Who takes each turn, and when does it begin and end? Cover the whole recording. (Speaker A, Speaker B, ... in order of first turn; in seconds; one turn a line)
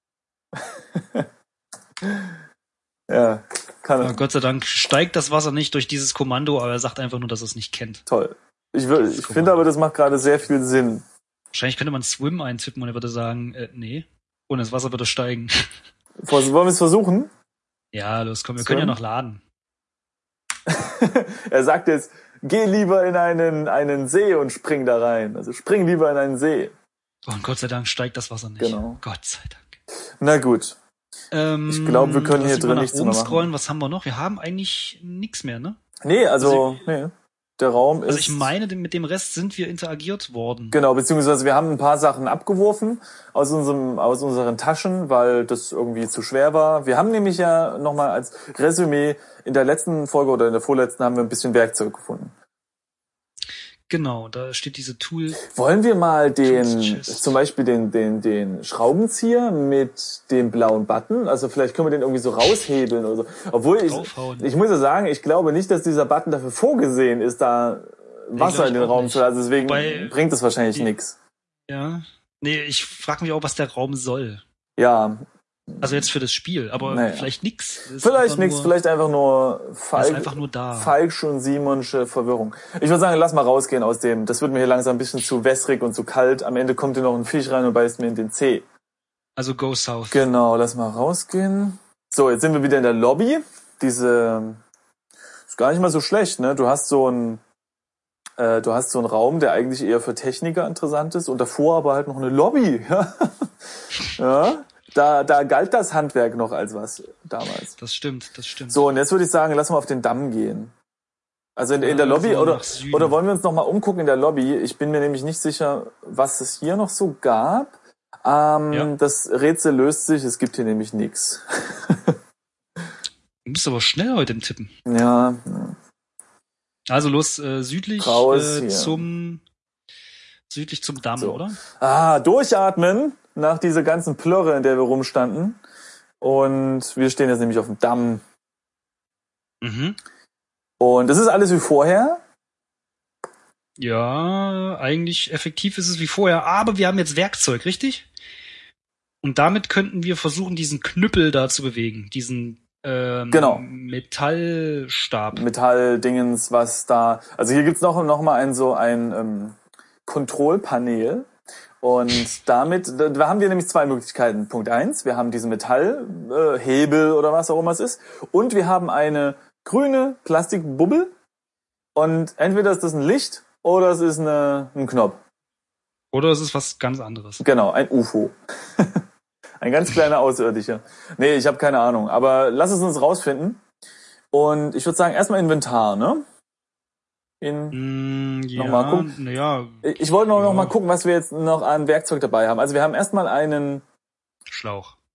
Speaker A: 0.6-1.3
Speaker A: 3.1-4.2
Speaker B: 4.0-8.0
Speaker A: 8.1-11.1
Speaker B: 9.0-9.7
Speaker B: 11.5-15.7
Speaker A: 16.2-17.3
Speaker B: 17.9-19.4
Speaker A: 18.6-19.0
Speaker A: 20.7-26.7
Speaker B: 27.3-29.8
Speaker A: 28.6-29.0
Speaker A: 30.2-30.8
Speaker B: 31.3-35.8
Speaker A: 31.7-33.5
Speaker A: 36.0-38.5
Speaker B: 36.4-36.8
Speaker B: 38.1-40.8
Speaker A: 40.7-52.3
Speaker B: 53.9-55.4
Speaker A: 55.4-71.2
Speaker B: 56.4-57.4
Speaker B: 63.9-64.5
Speaker B: 68.4-70.1
Speaker B: 71.7-74.4
Speaker A: 74.8-76.1
Speaker B: 75.8-78.7
Speaker A: 76.9-77.3
Speaker A: 78.0-88.7
Speaker B: 80.0-81.0
Speaker B: 89.4-90.2
Speaker A: 90.1-94.6
Speaker A: 95.5-97.4
Speaker A: 98.4-103.5
Speaker A: 104.1-107.8
Speaker B: 107.8-108.8
Speaker A: 108.7-110.7
Speaker A: 111.6-122.2
Speaker B: 111.8-113.2
Speaker B: 123.5-124.7
Speaker A: 124.9-125.8
Speaker B: 126.9-129.4
Speaker A: 128.0-129.0
Speaker B: 130.5-131.6
Speaker A: 131.2-135.6
Speaker A: 136.2-138.2
Speaker B: 139.6-140.0
Speaker A: 140.8-142.2
Speaker B: 143.8-148.1
Speaker B: 149.2-155.4
Speaker A: 153.3-153.7
Speaker A: 155.3-161.3
Speaker A: 161.8-171.1
Speaker A: 171.9-175.2
Speaker B: 176.1-177.4
Speaker A: 177.4-179.0
Speaker A: 179.6-183.6
Speaker A: 184.3-186.2
Speaker A: 187.4-187.8
Speaker B: 187.7-190.8
Speaker A: 188.6-189.1
Speaker A: 189.8-193.8
Speaker B: 194.5-195.0